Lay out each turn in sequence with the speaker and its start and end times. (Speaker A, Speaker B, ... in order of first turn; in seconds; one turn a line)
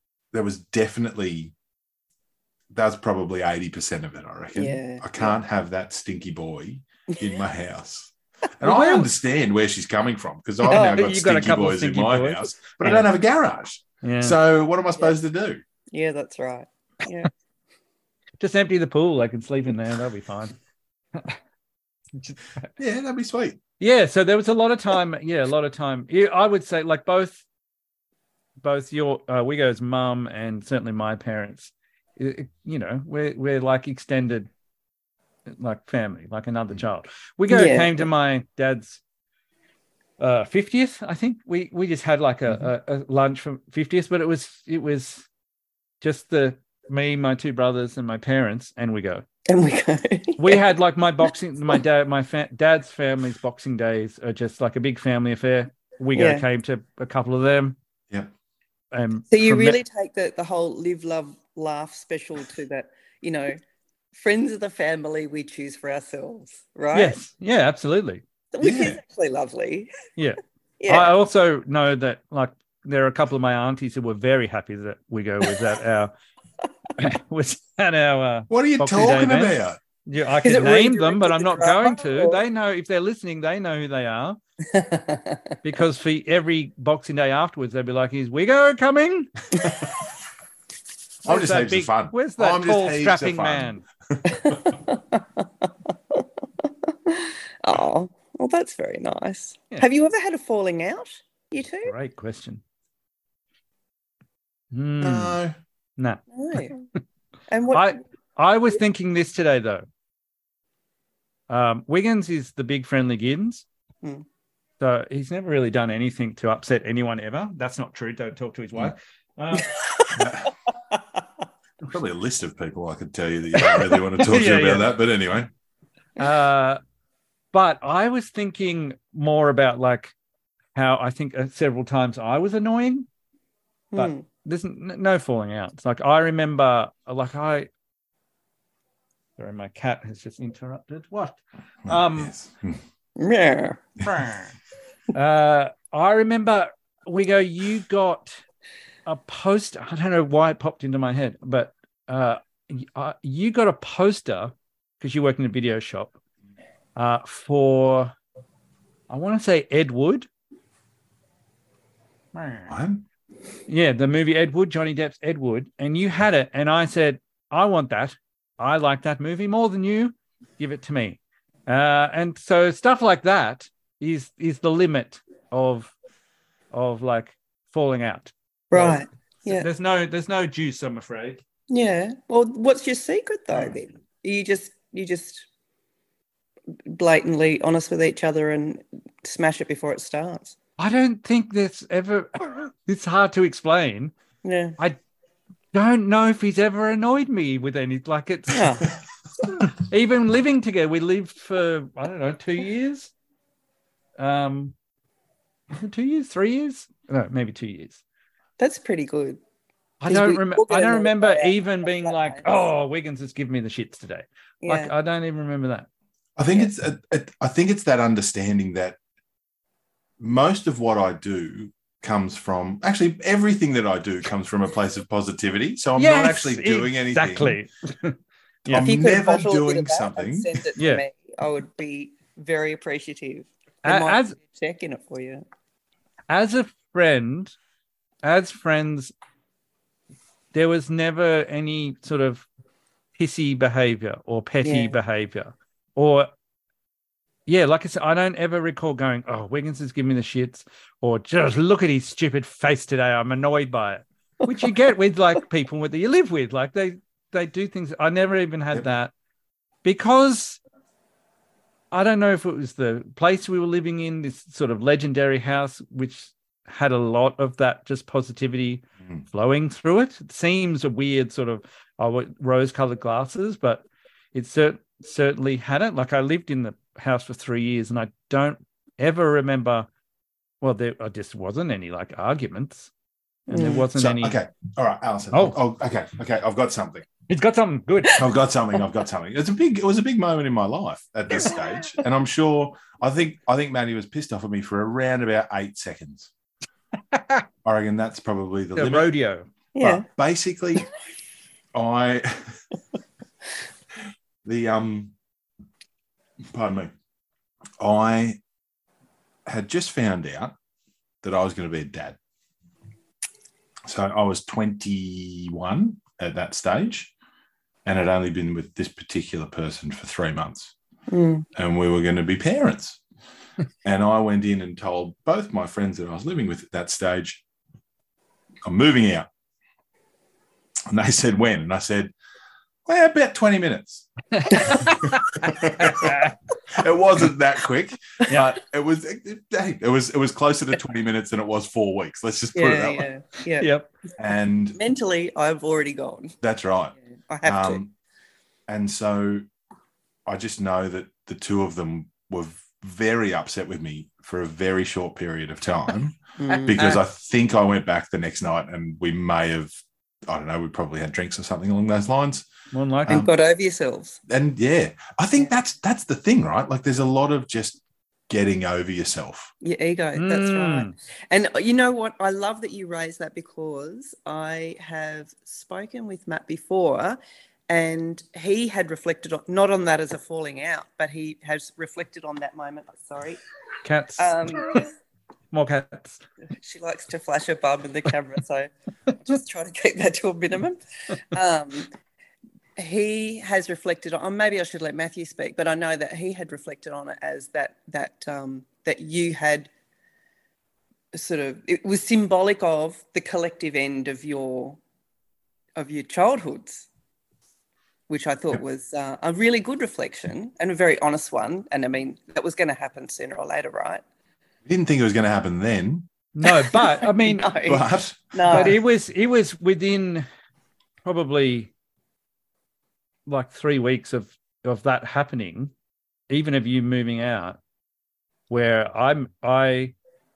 Speaker A: 0.3-1.5
Speaker A: 2.7-15.6
Speaker B: 4.5-5.4
Speaker C: 8.6-9.1
Speaker C: 10.6-13.1
Speaker B: 10.7-11.0
Speaker C: 14.0-14.4
Speaker B: 15.9-17.3
Speaker C: 18.4-20.6
Speaker C: 22.2-22.7
Speaker A: 22.8-23.6
Speaker C: 23.8-27.4
Speaker C: 28.6-34.5
Speaker C: 35.5-39.0
Speaker B: 37.5-38.1
Speaker C: 40.2-45.3
Speaker C: 46.0-49.2
Speaker B: 49.5-50.6
Speaker C: 50.4-57.8
Speaker B: 56.1-56.5
Speaker C: 58.9-59.8
Speaker B: 59.3-63.6
Speaker B: 64.1-67.2
Speaker C: 66.9-68.2
Speaker B: 68.5-69.9
Speaker A: 68.6-69.0
Speaker C: 70.2-76.1
Speaker B: 70.8-71.1
Speaker C: 77.0-84.4
Speaker A: 78.5-79.8
Speaker B: 80.4-82.4
Speaker B: 84.7-85.5
Speaker C: 85.6-89.4
Speaker C: 91.2-93.8
Speaker A: 91.2-94.8
Speaker B: 94.3-101.9
Speaker C: 101.8-102.6
Speaker C: 104.7-105.4
Speaker A: 105.0-105.6
Speaker C: 106.0-106.7
Speaker B: 106.3-106.8
Speaker B: 107.5-108.0
Speaker C: 107.7-109.9
Speaker C: 111.5-113.7
Speaker C: 114.8-120.3
Speaker B: 119.6-120.2
Speaker A: 120.2-120.5
Speaker A: 121.8-125.5
Speaker C: 124.2-124.9
Speaker C: 126.2-126.8
Speaker C: 127.5-130.1
Speaker C: 130.8-133.1
Speaker B: 133.9-134.2
Speaker C: 133.9-137.7
Speaker C: 139.4-142.3
Speaker A: 141.9-142.8
Speaker B: 143.2-143.8
Speaker C: 144.0-144.6
Speaker C: 145.1-148.4
Speaker C: 149.1-156.2
Speaker C: 157.0-158.2
Speaker C: 159.1-160.3
Speaker C: 162.3-162.8
Speaker A: 162.7-163.1
Speaker C: 163.7-175.9
Speaker C: 176.7-181.4
Speaker B: 178.7-179.7
Speaker B: 181.7-185.5
Speaker B: 186.9-190.6
Speaker C: 190.8-194.1
Speaker B: 194.4-194.8
Speaker C: 195.7-198.8
Speaker B: 198.5-198.9
Speaker C: 199.5-203.1
Speaker C: 204.2-204.8
Speaker C: 205.8-208.0
Speaker B: 208.6-209.4
Speaker C: 210.0-215.9
Speaker B: 210.1-212.6
Speaker B: 214.6-214.9
Speaker A: 216.4-219.0
Speaker A: 220.2-227.6
Speaker C: 226.0-228.9
Speaker A: 228.7-230.7
Speaker B: 228.8-235.4
Speaker C: 230.8-231.0
Speaker C: 233.8-234.4
Speaker C: 236.3-237.6
Speaker C: 238.2-239.1
Speaker C: 240.5-242.5
Speaker C: 243.2-246.3
Speaker B: 244.6-244.9
Speaker C: 247.5-259.1
Speaker C: 259.8-260.6
Speaker C: 261.9-279.9
Speaker C: 280.6-282.9
Speaker C: 283.5-284.4
Speaker B: 283.5-283.9
Speaker A: 283.6-287.1
Speaker C: 285.3-285.6
Speaker C: 287.3-288.3
Speaker A: 288.2-296.3
Speaker C: 297.1-297.4
Speaker A: 297.6-299.1
Speaker C: 298.8-299.5
Speaker B: 299.8-300.1
Speaker A: 299.8-300.9
Speaker A: 301.7-302.6
Speaker A: 304.4-305.1
Speaker A: 306.5-306.9
Speaker A: 307.8-308.4
Speaker A: 309.5-310.5
Speaker A: 311.2-312.2
Speaker A: 313.9-317.1
Speaker A: 317.9-320.7
Speaker B: 321.1-321.5
Speaker A: 321.6-323.0
Speaker A: 323.8-327.4
Speaker A: 328.6-329.3
Speaker A: 330.9-332.1
Speaker A: 332.9-334.1
Speaker C: 334.3-336.4
Speaker A: 334.6-343.1
Speaker B: 342.5-343.7
Speaker C: 343.6-343.9
Speaker A: 344.2-344.8
Speaker B: 344.8-346.4
Speaker A: 346.4-347.9
Speaker B: 347.3-347.8
Speaker A: 348.7-349.4
Speaker A: 350.3-362.5
Speaker B: 356.4-357.0
Speaker C: 362.7-363.2
Speaker B: 363.1-364.2
Speaker A: 364.3-369.5
Speaker B: 369.6-383.4
Speaker C: 370.2-370.9
Speaker C: 383.8-384.8
Speaker B: 384.2-384.9
Speaker C: 385.5-386.2
Speaker B: 386.6-391.9
Speaker B: 392.8-399.7
Speaker B: 401.1-404.8
Speaker B: 405.8-406.9
Speaker B: 408.1-414.0
Speaker A: 414.7-416.1
Speaker C: 416.4-417.5
Speaker B: 416.5-418.8
Speaker A: 417.6-418.8
Speaker C: 418.5-420.2
Speaker C: 421.1-421.7
Speaker C: 423.3-425.7
Speaker C: 426.3-427.6
Speaker C: 428.5-429.9